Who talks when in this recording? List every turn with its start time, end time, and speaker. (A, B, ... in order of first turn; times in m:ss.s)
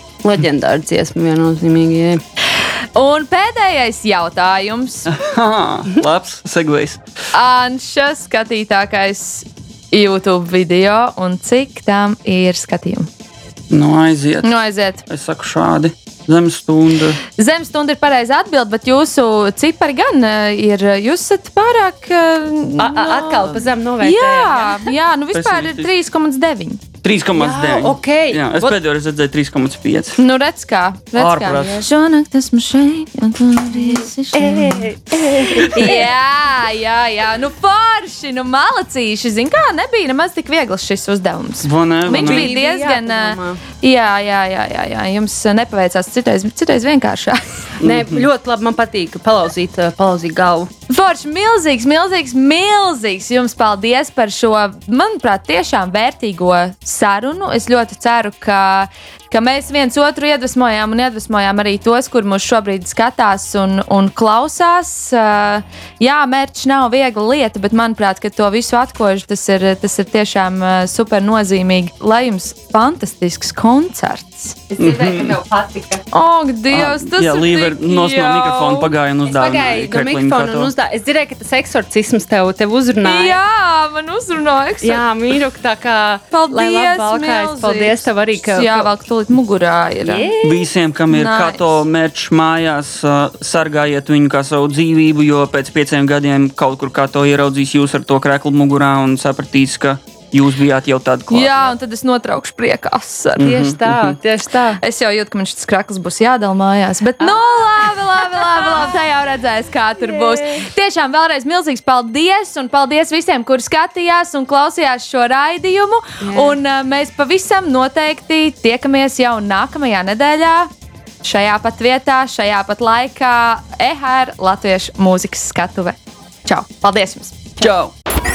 0:00.2-0:02.2 A
0:03.0-0:05.1 B
0:05.1-0:07.0 C
0:07.3-0:13.1 B
0:13.7-0:14.5 C
0:14.4-0:15.0 B
0:15.1-0:17.2 C
0:17.4-0:26.8 B
0:22.8-0:24.9 A
0:25.3-0:25.9 C
0:27.0-0:30.2 C
0:27.4-0:28.8 A
0:30.2-0:34.9 B
0:31.1-0:31.9 C
0:33.9-0:36.0 A
0:35.6-0:47.6 B
0:41.6-0:42.5 C
0:42.1-0:43.6 A
0:47.8-0:48.2 C
0:47.8-0:50.7 A
0:50.9-1:14.6 B
1:14.7-1:16.0 A
1:14.8-1:15.4 C
1:16.1-1:18.9 B
1:16.7-1:20.7 C
1:19.2-1:23.4 A
1:23.0-1:25.0 B
1:24.8-1:28.9 A
1:26.3-1:30.3 B
1:30.0-1:30.6 A
1:30.4-1:41.5 C
1:31.1-1:31.7 B
1:41.3-1:43.5 B
1:43.4-1:44.2 C
1:43.4-1:44.8 A
1:44.8-2:00.7 B
1:48.4-1:48.8 A
1:50.0-1:50.6 A
1:56.2-1:56.6 A
2:01.2-2:07.7 B
2:07.6-2:07.9 C